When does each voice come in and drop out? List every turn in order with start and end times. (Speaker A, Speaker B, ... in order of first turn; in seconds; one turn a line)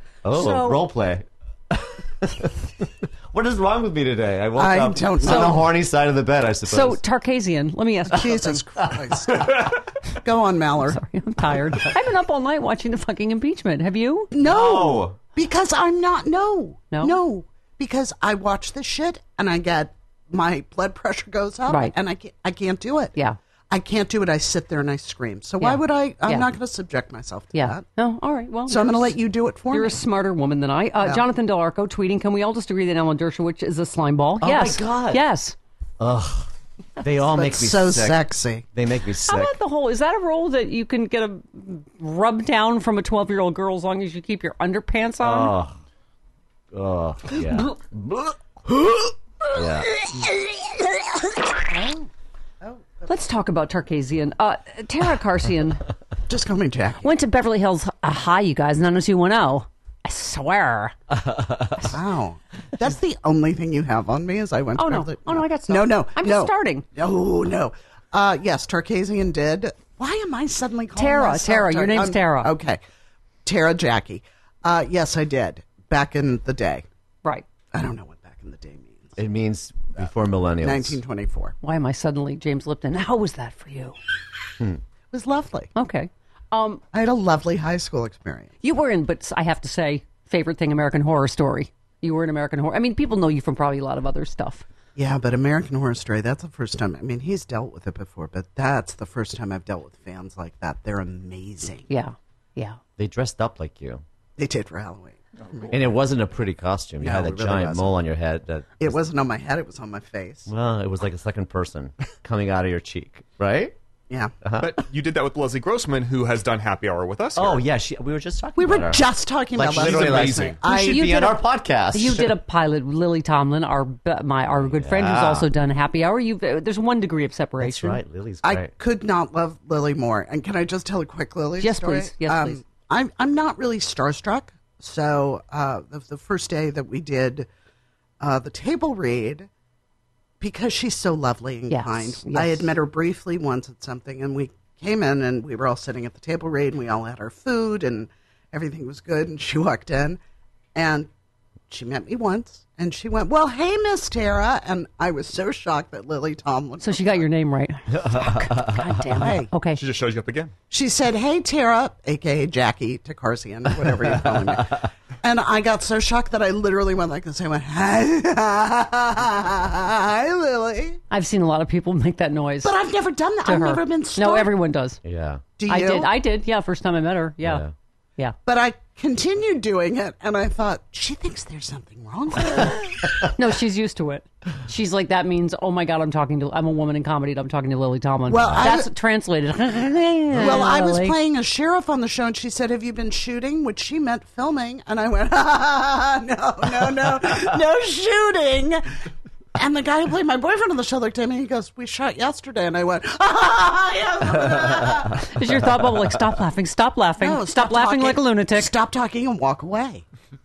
Speaker A: 0.2-7.0
Speaker B: 0.3-0.8
Speaker C: 4.6-5.7
Speaker B: 5.2-5.6
Speaker B: 6.7-8.6
Speaker C: 8.1-11.0
Speaker B: 10.9-14.3
Speaker C: 14.3-23.2
Speaker A: 14.4-15.2
Speaker B: 16.9-17.2
Speaker B: 21.7-21.9
Speaker C: 23.7-27.8
Speaker B: 25.6-26.5
Speaker B: 27.5-29.2
Speaker C: 28.7-30.0
Speaker B: 29.7-35.6
Speaker A: 34.4-35.2
Speaker A: 36.0-38.2
Speaker C: 37.2-38.6
Speaker A: 38.7-39.6
Speaker B: 39.2-45.5
Speaker A: 45.2-45.8
Speaker A: 46.7-48.3
Speaker A: 49.5-49.9
Speaker C: 51.6-52.1
Speaker C: 52.6-53.1
Speaker B: 53.1-55.8
Speaker C: 56.3-57.1
Speaker B: 57.0-61.0
Speaker A: 61.1-62.0
Speaker C: 61.9-72.8
Speaker B: 64.8-66.8
Speaker B: 71.0-72.5
Speaker C: 73.5-76.8
Speaker C: 77.7-79.2
Speaker A: 79.2-81.0
Speaker C: 80.6-81.5
Speaker B: 81.6-84.0
Speaker C: 85.1-85.7
Speaker B: 85.8-86.8
Speaker C: 86.9-88.5
Speaker B: 88.6-94.7
Speaker C: 95.0-101.9
Speaker B: 101.9-102.8
Speaker A: 103.0-104.0
Speaker C: 104.4-105.8
Speaker A: 105.7-109.0
Speaker C: 107.0-108.0
Speaker C: 108.8-110.5
Speaker A: 110.5-113.8
Speaker A: 114.4-114.8
Speaker D: 114.6-117.6
Speaker A: 117.3-122.4
Speaker C: 118.6-121.2
Speaker D: 119.7-120.6
Speaker B: 120.8-121.4
Speaker B: 121.9-128.0
Speaker A: 124.6-125.5
Speaker A: 127.6-128.7
Speaker C: 128.4-137.5
Speaker B: 131.6-132.6
Speaker C: 138.2-139.5
Speaker C: 140.4-150.2
Speaker B: 141.7-142.7
Speaker C: 150.8-151.1
Speaker C: 151.7-157.3
Speaker B: 156.8-159.8
Speaker A: 157.9-159.2
Speaker C: 159.2-159.5
Speaker D: 159.8-160.5
Speaker C: 160.7-171.0
Speaker B: 171.1-172.7
Speaker C: 172.6-174.5
Speaker B: 173.4-175.0
Speaker A: 175.0-175.4
Speaker C: 175.6-176.1
Speaker B: 175.7-177.7
Speaker A: 177.4-177.7
Speaker C: 178.5-183.3
Speaker B: 183.3-191.2
Speaker C: 188.3-188.9
Speaker A: 188.4-188.7
Speaker C: 190.3-198.8
Speaker C: 199.6-205.6
Speaker A: 204.6-205.1
Speaker B: 205.2-208.7
Speaker C: 207.2-210.0